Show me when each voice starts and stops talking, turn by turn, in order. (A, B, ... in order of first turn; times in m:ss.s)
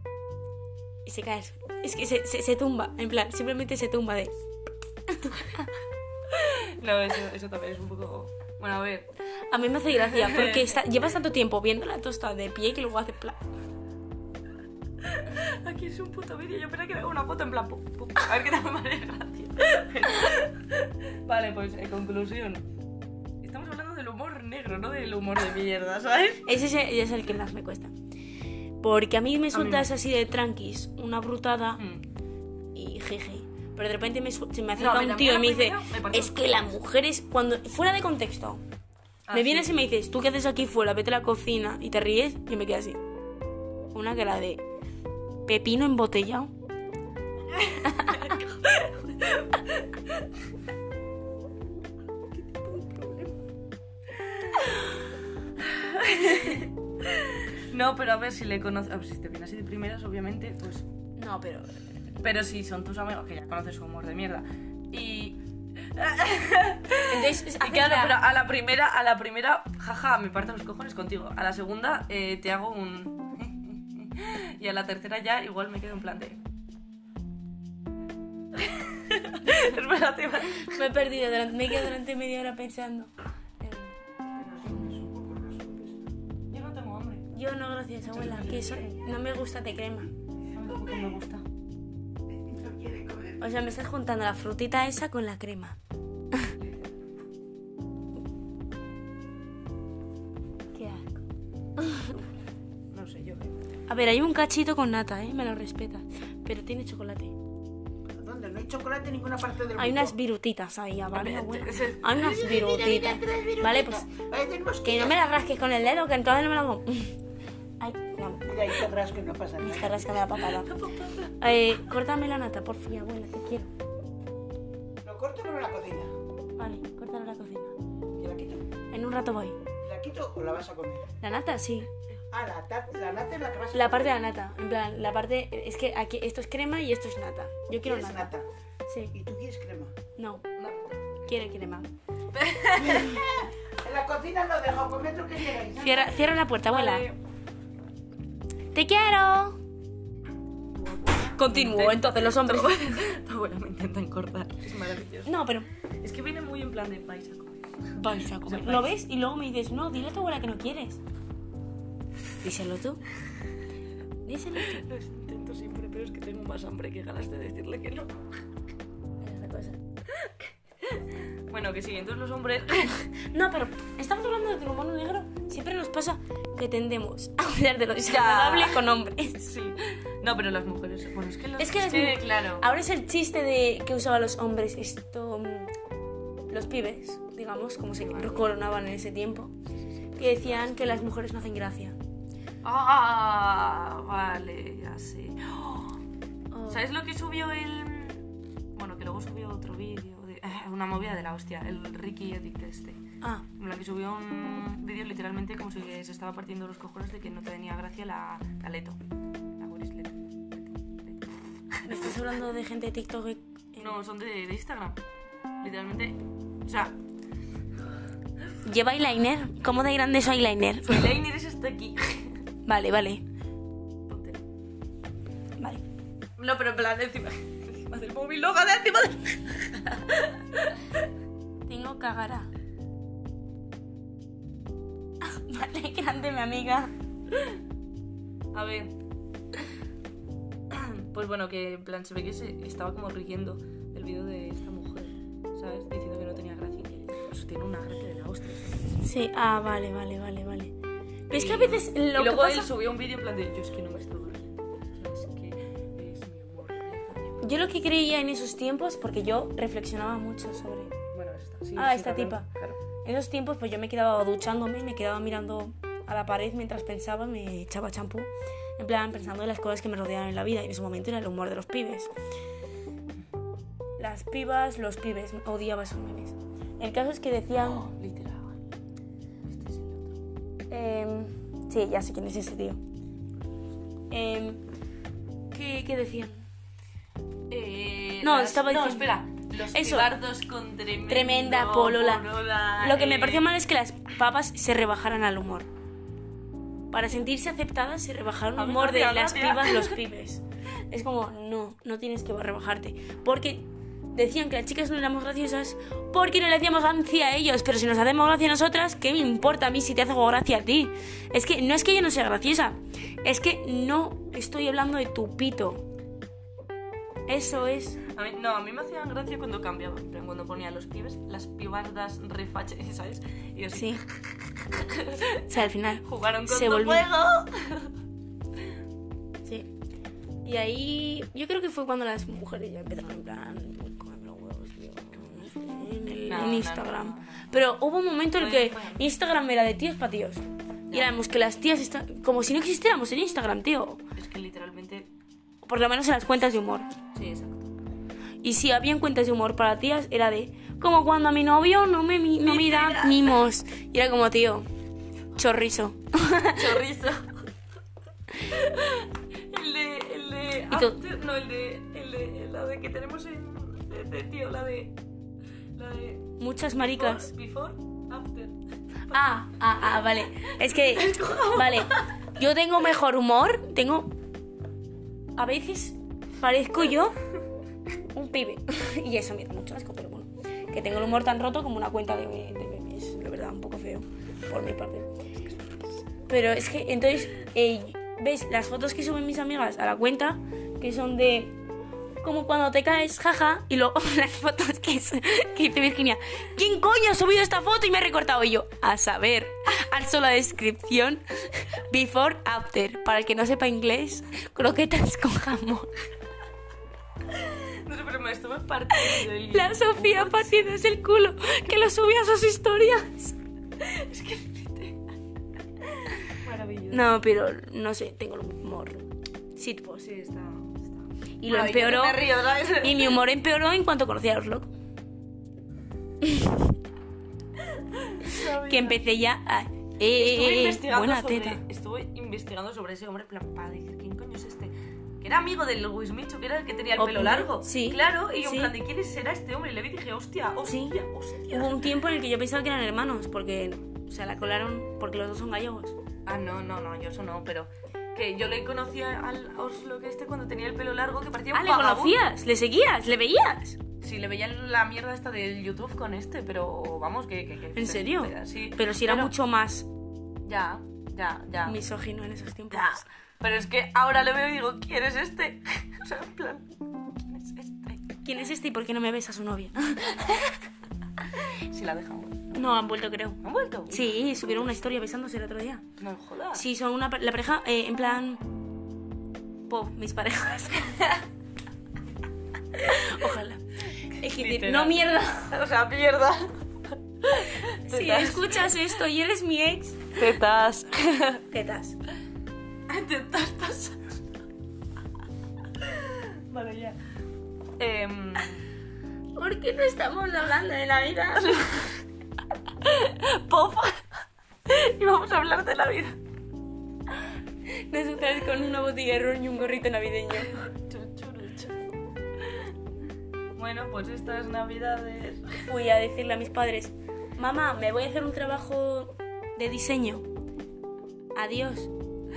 0:01.0-0:04.3 A
0:05.1-0:05.7 A
0:06.3-0:09.1 B
0:09.5-0:13.4 A
0:10.0-0:10.8 B
0:15.0-0:22.6 B
0:23.4-0:26.5 B
0:26.4-0:27.9 A
0:28.8-0:31.8 A
0:29.5-0:29.9 B
0:31.8-0:32.0 B
0:32.7-0:38.6 A
0:34.7-0:36.8 B
0:39.2-0:39.8 B
0:39.3-0:43.0 A
0:43.9-0:44.6 A
0:45.4-0:46.5 A
0:47.5-0:50.2 B
0:47.8-0:48.3 A
0:52.3-0:53.4 B
0:54.2-0:54.9 B
0:55.6-1:00.9 B
1:01.2-1:01.9 A
1:02.2-1:16.4 B
1:07.1-1:08.2 A
1:18.5-1:20.9 B
1:20.5-1:23.1 A
1:23.6-1:23.9 B
1:24.3-1:26.1 C
1:24.6-1:25.0 B
1:26.5-1:27.3 B
1:27.3-1:30.1 A
1:28.1-1:28.8 B
1:28.3-1:28.8 C
1:30.5-1:31.4 B
1:32.3-1:33.5 C
1:33.4-1:35.8 A
1:36.6-1:37.0 B
1:40.7-1:41.2 A
1:41.8-1:42.2 A
1:42.9-1:43.7 B
1:43.9-1:47.3 A
1:48.1-1:50.1 C
1:49.8-1:54.1 A
1:51.1-1:52.2 B
1:52.2-1:55.2 C
1:54.8-1:57.1 A
1:57.8-1:58.8 A
1:58.4-2:00.1 C
1:59.6-2:00.8 A
2:00.4-2:01.8 B
2:01.4-2:03.7 A
2:05.0-2:06.1 C
2:06.6-2:07.7 A
2:08.2-2:08.6 C
2:08.9-2:09.6 A
2:09.8-2:11.1 C
2:11.2-2:11.9 A
2:12.3-2:14.1 C
2:13.7-2:18.3 A
2:17.8-2:18.4 C
2:18.9-2:19.1 A
2:19.1-2:19.9 C
2:20.2-2:20.4 A
2:20.6-2:21.4 B
2:21.3-2:21.9 A
2:22.3-2:23.2 B
2:22.8-2:26.3 C
2:25.8-2:27.1 A
2:26.6-2:27.2 B
2:28.7-2:29.6 A
2:30.7-2:35.3 B
2:31.4-2:33.0 A
2:35.2-2:35.7 A
2:36.0-2:38.9 B
2:38.0-2:41.0 A
2:42.4-2:43.0 A
2:44.2-2:44.8 A
2:44.6-2:48.2 B
2:49.2-2:49.8 A
2:50.1-2:53.1 B
2:53.2-2:59.5 A
2:58.1-2:58.8 B
2:59.5-3:02.7 B
3:01.6-3:05.7 A
3:06.5-3:09.5 A
3:08.0-3:08.5 B
3:09.6-3:11.1 B
3:10.2-3:12.0 A
3:12.6-3:16.0 B
3:16.5-3:16.8 A
3:16.7-3:23.0 B
3:23.6-3:29.0 B
3:29.6-3:32.2 B
3:31.8-3:34.0 A
3:33.8-3:35.0 B
3:35.6-3:37.0 B
3:38.6-3:41.1 A
3:40.8-3:42.4 B
3:42.6-3:43.2 A
3:44.1-3:44.4 B
3:46.4-3:51.0 B
3:51.7-3:52.5 A
3:55.2-3:56.9 A
3:58.5-3:58.9 B
4:00.7-4:09.0 B
4:09.0-4:10.7 A
4:11.3-4:12.7 A
4:11.3-4:17.6 B
4:17.4-4:20.9 A
4:21.1-4:22.8 B
4:21.8-4:22.5 A
4:23.0-4:32.1 A
4:34.0-4:37.9 A
4:37.6-4:38.6 B
4:39.4-4:40.2 B
4:40.7-4:42.8 A
4:44.1-4:44.6 A
4:45.5-4:46.4 A
4:47.5-4:53.5 B
4:48.2-4:50.2 A
4:51.0-4:52.2 A
4:52.8-4:55.7 A
4:56.9-5:15.8 A
4:58.5-5:00.0 B
5:17.3-5:18.0 A
5:18.0-5:24.0 B
5:23.7-5:24.0 A
5:24.7-5:25.5 B
5:25.4-5:27.1 A
5:26.0-5:27.9 B
5:30.4-5:44.0 A
5:36.2-5:37.6 B
5:38.4-5:39.1 B
5:44.2-5:45.1 B
5:45.6-5:46.9 A
5:47.1-5:47.7 B
5:48.4-5:54.7 A
5:52.4-5:53.4 B
5:55.3-5:56.6 A
5:56.4-5:57.5 B
5:58.4-6:05.0 B
6:00.7-6:01.0 A
6:05.7-6:06.3 B
6:06.4-6:07.3 A
6:06.9-6:09.2 B
6:09.1-6:14.1 A
6:10.4-6:12.1 B
6:15.4-6:17.2 A
6:18.1-6:25.1 A
6:25.4-6:25.9 B
6:26.3-6:31.6 A
6:32.2-6:45.9 A
6:47.3-6:50.8 B
6:48.9-6:53.4 A
6:53.8-6:55.0 B
6:55.9-6:57.1 B
6:56.9-7:00.1 A
7:00.0-7:03.2 B
7:01.4-7:04.7 A
7:06.2-7:06.6 A
7:07.6-7:09.0 B
7:08.2-7:11.6 A
7:10.0-7:21.8 B
7:17.0-7:18.7 A
7:20.6-7:21.0 A
7:21.5-7:26.0 A
7:26.2-7:32.2 B
7:31.5-7:33.8 A
7:34.0-7:39.3 B
7:37.7-7:39.9 A
7:40.4-7:41.8 B
7:41.6-7:43.1 A
7:42.7-7:48.1 B
7:48.2-7:50.6 A
7:51.6-7:52.6 B
7:52.5-7:55.9 A
7:53.4-7:54.7 B
7:56.0-7:56.6 B
7:56.5-7:58.4 A
7:59.7-8:01.0 A
8:00.8-8:01.2 B
8:02.8-8:05.6 A
8:04.2-8:08.8 B
8:07.6-8:10.2 A
8:10.2-8:11.4 B
8:11.5-8:12.0 A
8:12.9-8:14.2 B
8:15.8-8:17.0 B
8:17.8-8:18.6 B
8:19.3-8:21.8 A
8:21.3-8:22.0 B
8:22.8-8:26.2 B
8:27.7-8:30.7 A
8:30.4-8:31.8 B
8:32.4-8:32.7 B
8:33.6-8:35.5 B
8:35.6-8:40.2 A
8:41.3-8:41.9 A